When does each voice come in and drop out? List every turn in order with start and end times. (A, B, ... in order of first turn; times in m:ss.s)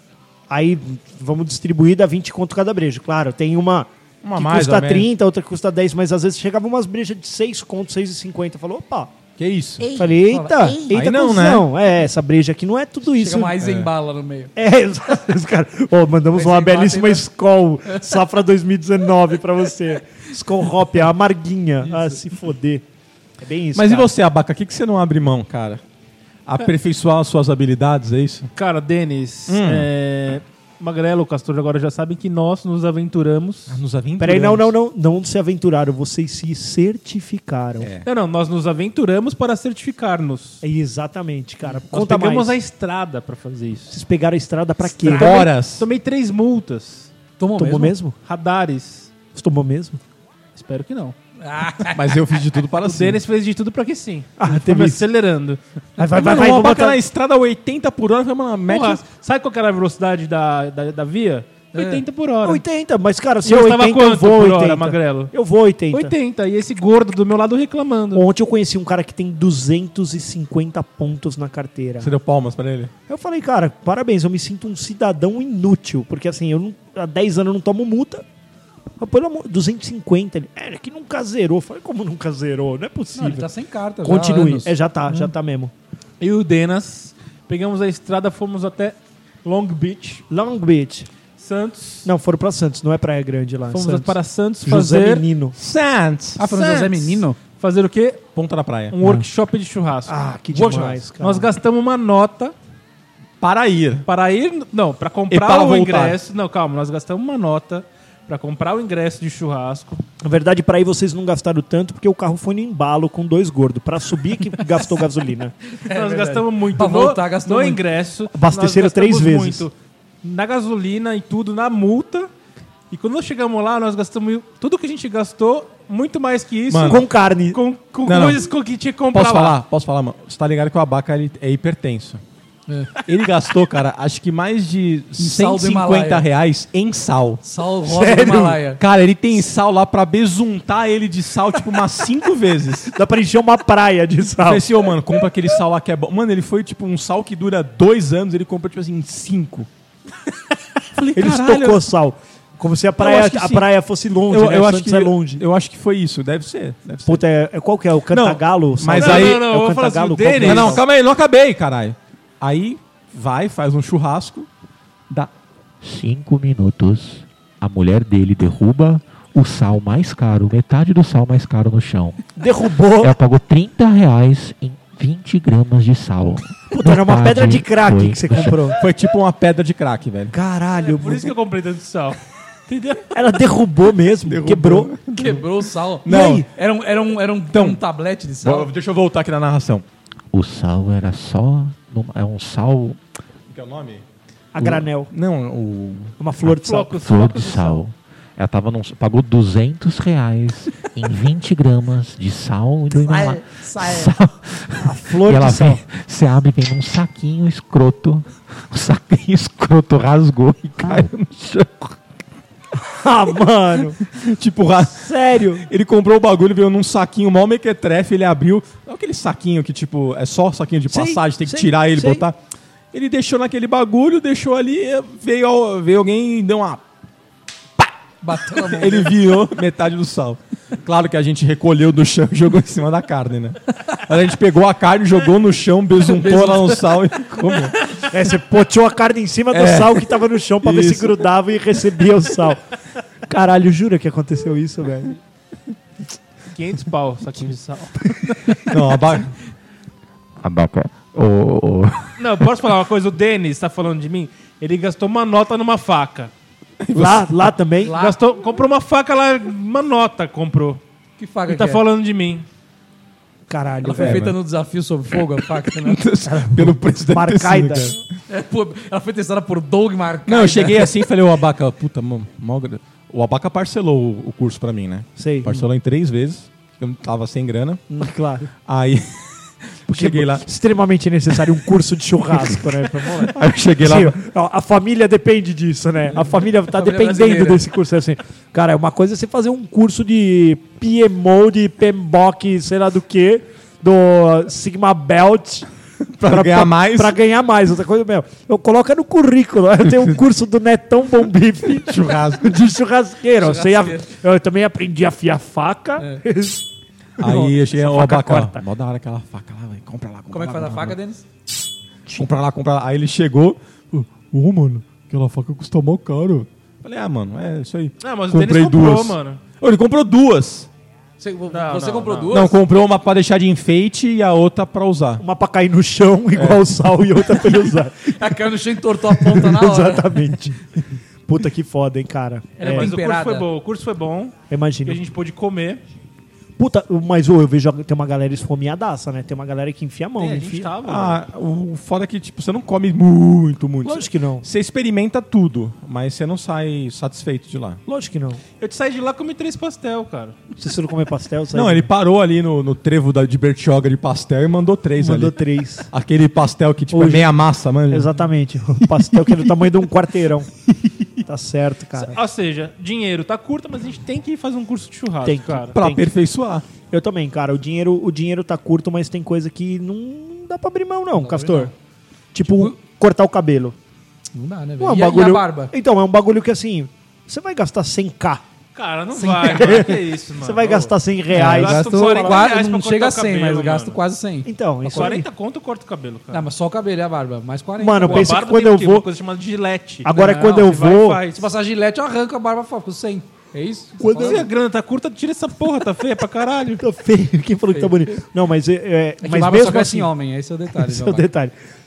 0:00.5-0:09.1 A
0:04.2-0:05.1 B
0:09.4-0:09.9 B
0:09.8-0:11.0 C
0:09.9-0:13.6 A
0:10.9-0:11.7 B
0:13.0-0:14.5 C
0:13.6-0:13.9 B
0:14.6-0:22.8 A
0:16.3-0:17.3 C
0:17.9-0:18.2 C
0:21.9-0:22.1 C
0:23.4-0:24.1 A
0:23.7-0:25.8 B
0:26.5-0:28.5 B
0:28.6-0:33.8 D
0:29.5-0:29.9 B
0:33.7-0:34.7 B
0:34.2-0:37.9 A
0:37.8-0:38.1 B
0:38.0-0:40.6 D
0:40.6-0:42.6 A
0:41.8-0:44.0 D
0:43.9-0:45.5 A
0:45.0-0:47.1 D
0:45.1-0:45.9 B
0:47.4-0:48.0 C
0:47.6-0:48.2 A
0:48.2-0:49.1 D
0:49.4-0:50.0 A
0:50.6-0:51.2 D
0:51.4-0:52.3 C
0:51.9-0:53.2 B
0:52.7-0:55.6 D
0:54.4-0:55.1 A
0:56.0-0:57.0 A
0:56.1-0:59.1 B
0:58.7-1:02.6 D
1:01.7-1:02.0 C
1:02.4-1:06.1 A
1:03.4-1:05.3 D
1:05.9-1:08.2 D
1:08.1-1:12.1 A
1:12.0-1:12.9 B
1:13.1-1:18.2 A
1:19.0-1:23.5 A
1:23.2-1:25.3 C
1:24.0-1:25.7 A
1:26.2-1:30.2 D
1:30.3-1:31.1 A
1:31.4-1:32.1 D
1:32.0-1:35.6 A
1:33.7-1:35.3 D
1:35.6-1:36.4 B
1:36.4-1:37.4 C
1:36.4-1:38.2 D
1:38.4-1:39.0 B
1:38.9-1:42.6 D
1:40.1-1:41.5 A
1:43.4-1:44.1 B
1:44.1-1:50.0 D
1:45.3-1:46.2 B
1:50.2-1:55.6 A
1:55.8-1:57.8 C
1:55.8-2:02.3 D
1:58.3-1:59.7 A
2:02.9-2:09.6 D
2:06.7-2:07.0 B
2:06.9-2:07.6 A
2:08.0-2:08.4 B
2:09.1-2:12.2 B
2:12.7-2:13.0 C
2:13.0-2:17.4 B
2:15.2-2:16.3 C
2:17.4-2:18.8 C
2:17.8-2:18.6 A
2:18.5-2:22.9 B
2:22.9-2:24.7 A
2:24.4-2:29.7 B
2:31.0-2:31.9 B
2:31.1-2:35.4 A
2:33.0-2:33.7 B
2:34.3-2:37.2 B
2:37.1-2:40.8 A
2:38.1-2:39.4 B
2:38.9-2:40.8 D
2:40.4-2:44.5 B
2:45.8-2:52.2 E
2:52.4-2:53.2 A
2:53.0-2:58.7 E
2:56.7-2:58.8 A
2:58.7-3:00.3 B
3:00.3-3:01.3 A
3:00.7-3:03.1 D
3:03.1-3:05.0 A
3:04.3-3:05.4 B
3:05.1-3:08.7 C
3:06.0-3:06.5 B
3:06.1-3:06.5 A
3:07.5-3:07.8 B
3:08.4-3:09.8 B
3:10.3-3:13.0 E
3:13.5-3:14.0 B
3:14.5-3:15.1 A
3:14.6-3:16.2 B
3:16.2-3:17.0 A
3:16.5-3:17.8 D
3:17.0-3:32.0 E
3:23.1-3:24.1 C
3:24.8-3:25.8 A
3:32.8-3:34.0 A
3:34.1-3:42.4 B
3:34.9-3:35.7 A
3:40.9-3:42.2 A
3:42.9-3:46.8 B
3:48.2-3:49.2 C
3:48.5-3:57.8 B
3:56.2-3:56.7 C
3:58.0-4:02.6 A
3:59.5-4:01.3 B
4:03.3-4:05.2 A
4:06.5-4:08.6 D
4:08.6-4:09.3 B
4:10.4-4:12.5 E
4:12.2-4:16.3 D
4:16.8-4:17.5 B
4:16.9-4:18.0 A
4:17.8-4:18.2 C
4:17.9-4:20.8 D
4:21.2-4:21.8 C
4:21.5-4:22.4 D
4:23.5-4:24.3 A
4:23.8-4:26.0 C
4:23.9-4:24.4 B
4:25.4-4:28.0 B
4:26.2-4:27.9 A
4:28.3-4:31.0 C
4:30.3-4:37.8 B
4:35.2-4:35.7 A
4:38.0-4:38.5 A
4:38.7-4:40.4 B
4:39.9-4:55.7 A
4:42.3-4:44.2 B
4:46.3-4:47.7 C
4:56.1-4:57.2 B
4:56.2-5:06.6 A
5:01.6-5:02.6 B
5:03.4-5:04.1 C
5:07.2-5:08.6 A
5:07.2-5:11.0 B
5:10.3-5:11.2 C
5:12.1-5:20.7 B
5:18.0-5:19.4 D
5:21.2-5:22.6 C
5:21.5-5:22.4 D
5:22.3-5:25.2 B
5:25.2-5:32.9 A
5:26.4-5:26.6 B
5:28.0-5:30.3 C
5:32.6-5:33.5 C
5:32.6-5:34.4 D
5:34.5-5:35.0 A
5:34.9-5:35.8 D
5:36.6-5:40.7 A
5:40.2-5:41.2 D
5:40.8-5:47.8 B
5:43.8-5:44.4 A
5:47.9-5:48.4 A
5:48.6-5:50.4 D
5:50.6-5:51.9 A
5:51.5-5:58.1 B
5:55.0-5:55.9 A
5:56.9-5:57.4 A
5:57.9-6:00.5 A
5:58.8-5:59.7 B
6:01.2-6:02.2 A
6:02.0-6:05.8 D
6:05.2-6:06.1 A
6:05.8-6:06.6 B
6:06.9-6:11.7 A
6:11.2-6:11.7 C
6:12.3-6:13.8 A
6:12.4-6:12.7 C
6:14.3-6:15.7 C
6:14.8-6:18.4 A
6:18.8-6:24.0 D
6:19.2-6:22.4 A
6:19.2-6:19.5 C
6:21.3-6:25.2 C
6:21.4-6:22.1 B
6:24.4-6:25.3 A
6:24.9-6:26.5 D
6:26.3-6:28.4 C
6:27.8-6:29.1 A
6:28.0-6:31.4 D
6:30.0-6:31.2 A
6:30.1-6:34.5 C
6:34.0-6:34.5 A
6:34.2-6:36.8 D
6:36.8-6:40.1 A
6:37.7-6:38.1 C
6:39.2-6:41.3 C
6:40.7-6:41.5 A